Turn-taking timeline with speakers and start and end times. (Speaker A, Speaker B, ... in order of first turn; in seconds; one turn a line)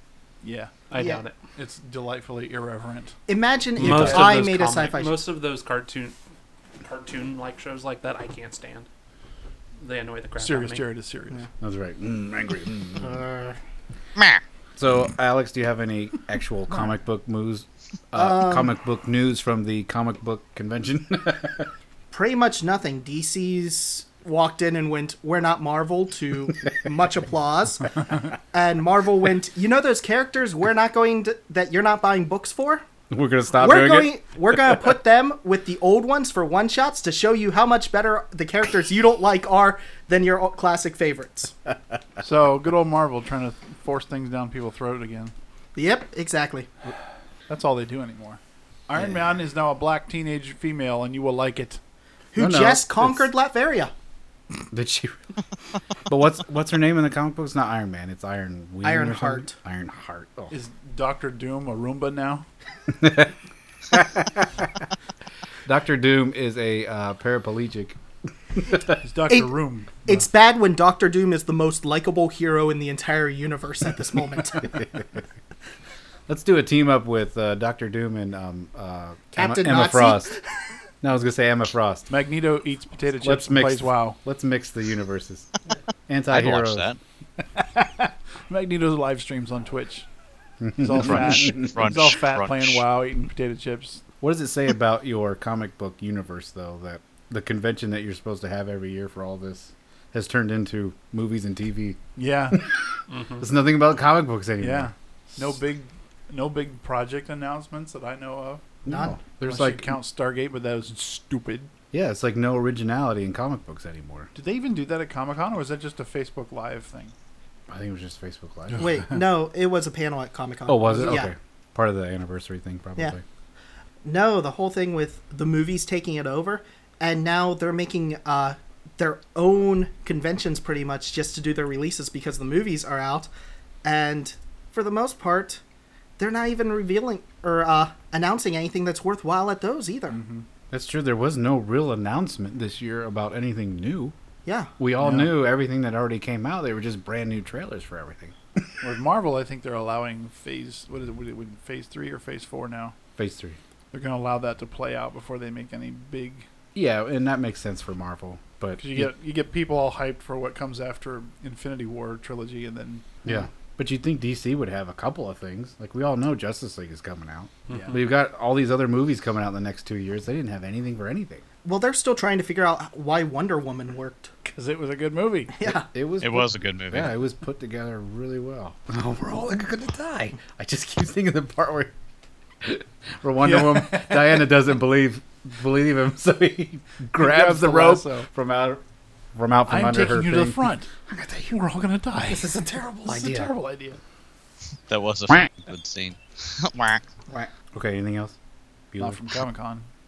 Speaker A: 0.4-0.7
Speaker B: 0.9-1.4
Speaker C: 0.9-1.2
Speaker A: 1.6-3.1
Speaker C: 3.3-5.2
Speaker B: 3.8-6.2
Speaker A: 3.9-4.2
Speaker B: 6.8-8.9
Speaker B: 9.8-10.9
Speaker A: 10.4-11.4
Speaker D: 11.6-13.2
Speaker C: 13.0-13.6
Speaker D: 14.8-21.7
Speaker C: 18.1-18.7
Speaker C: 22.1-28.0
Speaker C: 28.5-32.8
Speaker D: 33.1-34.1
Speaker C: 33.5-41.5
Speaker A: 42.2-45.3
Speaker C: 45.7-46.7
Speaker A: 47.5-51.8
Speaker C: 52.3-53.9
Speaker D: 52.4-53.3
Speaker D: 54.7-55.2
Speaker D: 56.1-60.5
Speaker C: 58.8-59.5
Speaker A: 60.5-62.5
Speaker D: 63.0-63.3
Speaker D: 63.9-64.7
Speaker D: 65.7-68.0
Speaker A: 68.9-70.0
Speaker C: 69.3-74.8
Speaker D: 76.3-80.3
Speaker C: 79.3-80.4
Speaker D: 81.0-82.1
Speaker A: 82.1-84.2
Speaker D: 83.2-85.5
Speaker D: 86.1-86.9
Speaker E: 86.3-87.0
Speaker A: 87.5-90.1
Speaker D: 90.7-91.7
Speaker A: 90.8-94.0
Speaker E: 91.5-92.8
Speaker D: 94.2-102.7
Speaker A: 102.2-102.6
Speaker B: 103.1-103.4
Speaker D: 103.4-104.9
Speaker A: 104.6-108.8
Speaker D: 108.8-109.9
Speaker C: 108.9-109.2
Speaker A: 109.4-111.7
Speaker D: 111.9-114.3
Speaker A: 114.3-117.1
Speaker D: 117.7-118.8
Speaker C: 118.8-121.3
Speaker D: 120.7-123.2
Speaker A: 120.9-121.2
Speaker C: 124.0-133.3
Speaker C: 133.8-135.6
Speaker C: 136.2-140.2
Speaker A: 140.1-140.4
Speaker D: 140.7-144.1
Speaker C: 144.4-144.7
Speaker D: 144.8-148.7
Speaker A: 145.0-145.3
Speaker A: 148.8-152.9
Speaker D: 153.2-153.6
Speaker A: 153.9-156.4
Speaker D: 156.7-159.1
Speaker A: 158.8-163.0
Speaker D: 163.2-171.4
Speaker B: 167.7-168.0
Speaker A: 167.7-168.0
Speaker C: 171.6-174.3
Speaker A: 174.5-175.5
Speaker C: 175.6-175.8
Speaker D: 175.7-181.9
Speaker E: 176.2-177.1
Speaker D: 182.6-188.8
Speaker A: 183.4-184.4
Speaker A: 187.1-188.2
Speaker D: 189.3-190.6
Speaker A: 189.7-194.0
Speaker C: 192.3-193.4
Speaker E: 194.9-197.0
Speaker D: 197.3-198.3
Speaker D: 198.9-199.2
Speaker A: 199.0-199.8